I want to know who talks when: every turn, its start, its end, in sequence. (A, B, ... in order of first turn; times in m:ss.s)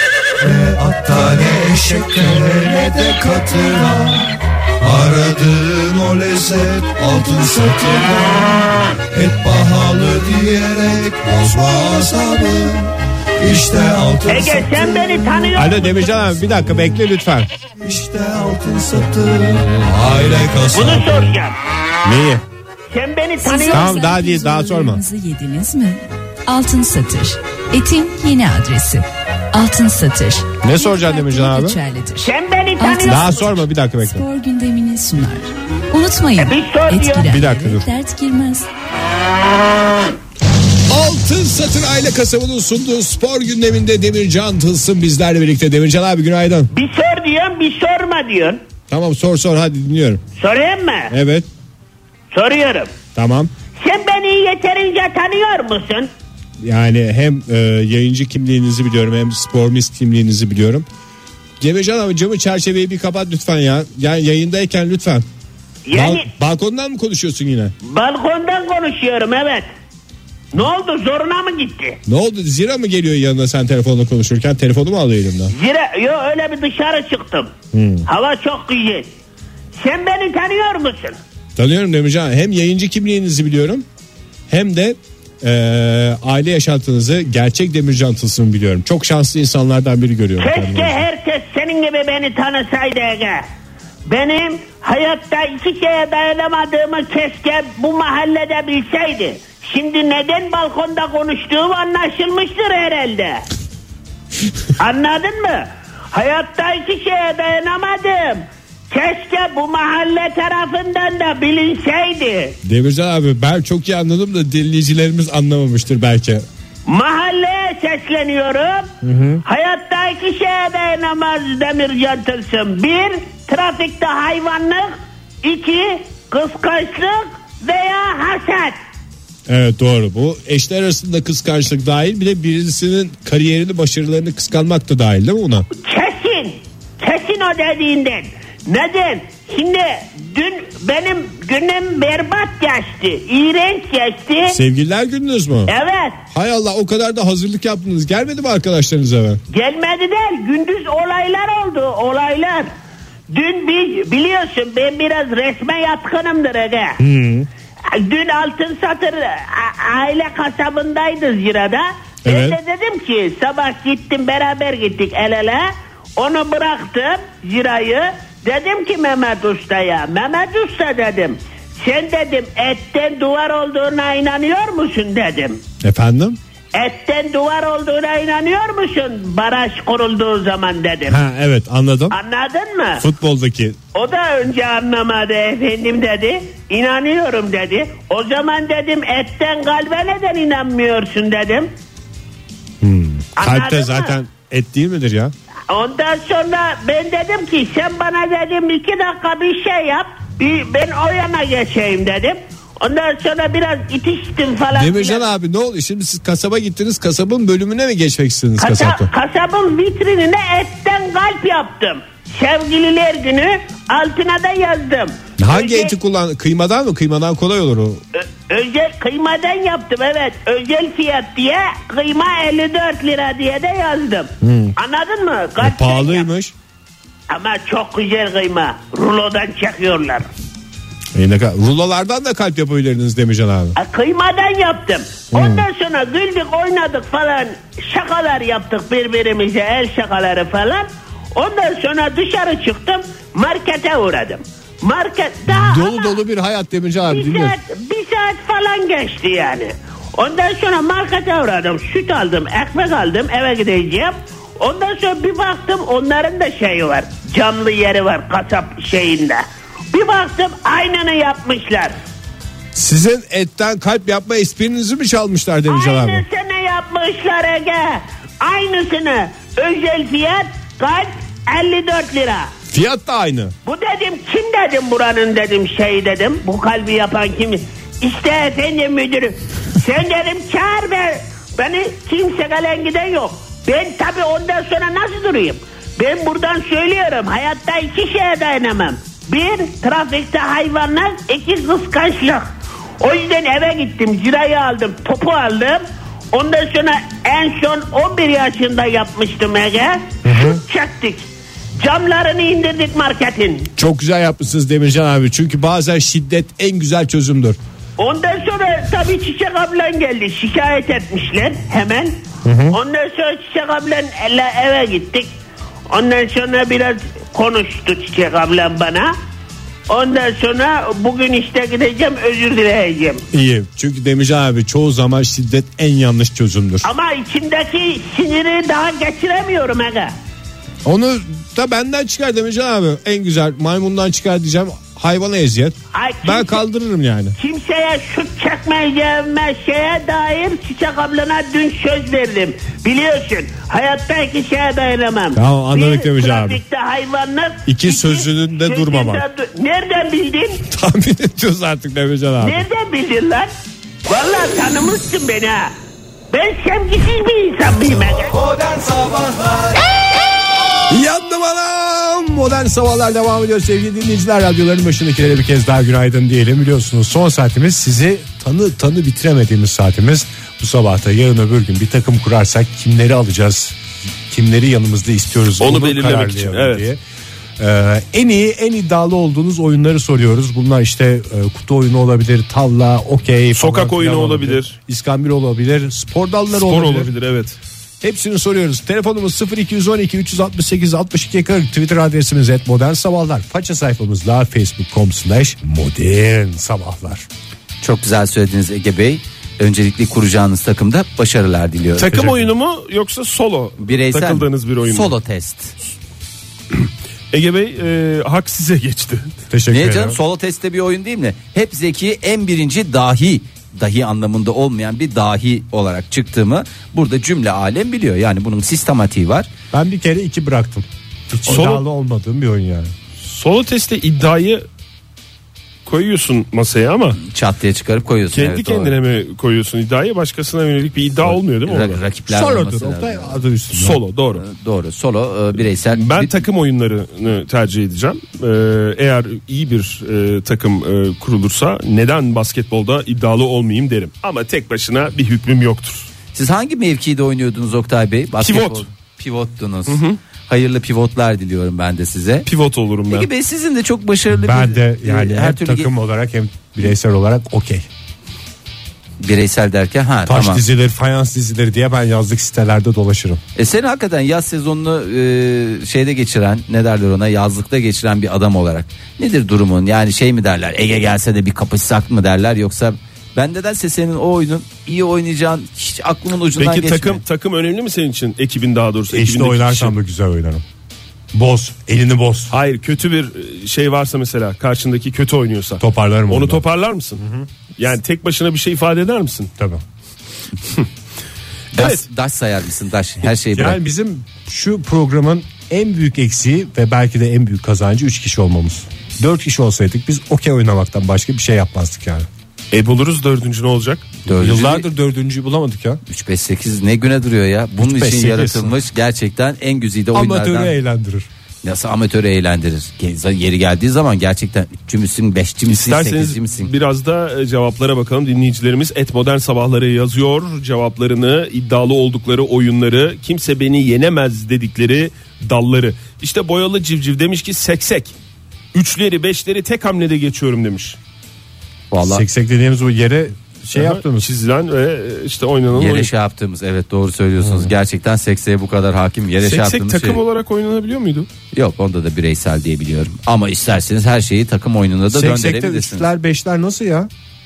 0:00.4-0:15.3 A
0:14.3-0:16.2 B
0:15.6-0:17.5 C
0:16.4-0:16.8 A
0:17.8-0:21.4 A
0:20.7-0:21.6 B
0:22.0-0:22.4 C
0:22.9-0:24.0 B
0:23.4-0:38.7 D
0:23.7-0:25.0 C
0:30.6-0:31.8 C
0:32.2-0:33.6 B
0:33.1-0:34.2 C
0:36.4-0:37.3 B
0:37.2-0:37.8 C
0:40.9-0:46.7 C
0:46.7-0:48.6 B
0:48.9-0:50.2 C
0:50.4-0:51.1 B
0:51.1-0:51.5 C
0:52.3-0:52.9 B
0:53.1-0:53.5 C
0:53.8-0:56.1 B
0:56.6-1:00.9 C
1:01.6-1:05.2 C
1:05.9-1:06.3 B
1:05.9-1:07.7 C
1:07.8-1:09.7 B
1:10.5-1:12.0 B
1:12.0-1:15.5 C
1:15.5-1:17.5 B
1:17.7-1:18.1 C
1:18.0-1:19.1 B
1:19.8-1:21.2 B
1:21.6-1:23.9 C
1:24.5-1:31.0 C
1:30.4-1:33.4 B
1:34.1-1:43.4 B
1:44.8-1:52.6 B
1:52.6-1:56.4 C
1:56.9-1:58.9 B
1:59.0-1:59.4 C
1:59.4-2:04.9 B
2:05.4-2:08.8 B
2:09.5-2:15.7 C
2:15.8-2:24.6 B
2:24.5-2:25.7 C
2:25.7-2:26.2 B
2:26.3-2:29.4 C
2:29.5-2:32.7 B
2:33.3-2:37.0 B
2:37.0-2:37.5 C
2:37.9-2:55.6 B
2:42.2-2:42.6 C
2:55.8-2:56.4 C
2:56.7-3:01.2 B
3:01.1-3:02.2 C
3:02.1-3:03.0 B
3:03.0-3:03.8 C
3:03.9-3:11.7 B
3:12.8-3:15.3 C
3:13.4-3:14.1 B
3:15.7-3:25.2 B
3:24.7-3:29.1 C
3:28.6-3:35.9 B
3:35.4-3:38.0 C
3:38.2-3:46.2 B
3:44.4-3:44.8 C
3:45.6-3:46.5 C
3:47.3-3:50.3 B
3:51.2-3:53.8 C
3:53.8-4:06.1 B
3:55.3-3:55.7 C
4:05.5-4:07.6 C
4:07.1-4:21.9 B
4:22.8-4:26.2 C
4:25.7-4:32.5 B
4:32.7-4:33.5 C
4:33.6-4:52.5 B
4:53.0-5:01.2 B
5:00.2-5:00.6 C
5:01.8-5:03.7 B
5:03.8-5:07.6 C
5:08.0-5:12.1 B
5:12.4-5:12.8 C
5:12.7-5:15.3 B
5:15.9-5:19.1 B
5:19.9-5:23.2 B
5:23.3-5:26.9 C
5:26.8-5:30.1 B
5:30.8-5:37.4 C
5:35.9-5:36.6 B
5:37.4-5:50.6 B
5:45.3-5:46.6 C
5:47.7-5:49.2 C
5:50.7-5:52.7 C
5:52.4-5:53.5 B
5:54.1-5:55.7 B
5:56.3-5:58.3 B
5:58.3-5:59.8 A
6:00.9-6:17.0 C
6:15.6-6:16.9 E
6:17.6-6:27.1 C
6:23.6-6:24.8 E
6:26.5-6:27.6 E
6:28.0-6:37.3 C
6:37.8-6:42.3 F
6:42.0-6:45.1 E
6:42.1-6:42.5 C
6:43.8-6:45.8 F
6:46.7-6:49.2 E
6:49.5-6:50.2 C
6:49.7-6:59.5 F
6:59.7-7:02.9 C
7:01.4-7:01.8 E
7:03.2-7:04.6 E
7:05.8-7:07.2 E
7:07.2-7:08.9 F
7:08.3-7:12.0 E
7:11.2-7:13.4 F
7:12.3-7:14.0 C
7:13.7-7:14.4 E
7:14.4-7:16.3 F
7:15.9-7:26.1 E
7:26.3-7:32.5 F
7:28.4-7:28.8 E
7:29.9-7:30.2 E
7:32.4-7:33.3 E
7:33.1-7:35.9 F
7:34.3-7:37.9 C
7:39.2-7:40.6 F
7:40.2-7:43.4 C
7:43.6-7:57.2 F
7:56.6-7:59.9 E
7:59.1-8:00.6 C
8:01.3-8:02.5 C
8:02.5-8:07.2 E
8:05.8-8:06.6 C
8:07.2-8:07.5 C
8:07.8-8:09.5 E
8:09.6-8:09.8 C
8:11.7-8:13.8 F
8:11.8-8:12.0 E
8:13.5-8:22.3 C
8:22.7-8:24.2 E
8:24.2-8:24.8 F
8:24.3-8:26.0 C
8:26.1-8:30.7 F
8:27.8-8:28.8 C
8:30.1-8:31.3 C
8:31.6-8:36.7 F
8:35.7-8:48.2 E
8:48.7-8:51.0 E
8:51.9-8:52.2 F
8:52.0-8:54.3 C
8:53.7-8:56.1 E
8:55.7-9:00.2 F
8:57.4-8:57.7 C
8:59.4-9:01.3 E
9:01.5-9:06.1 F
9:05.1-9:07.1 C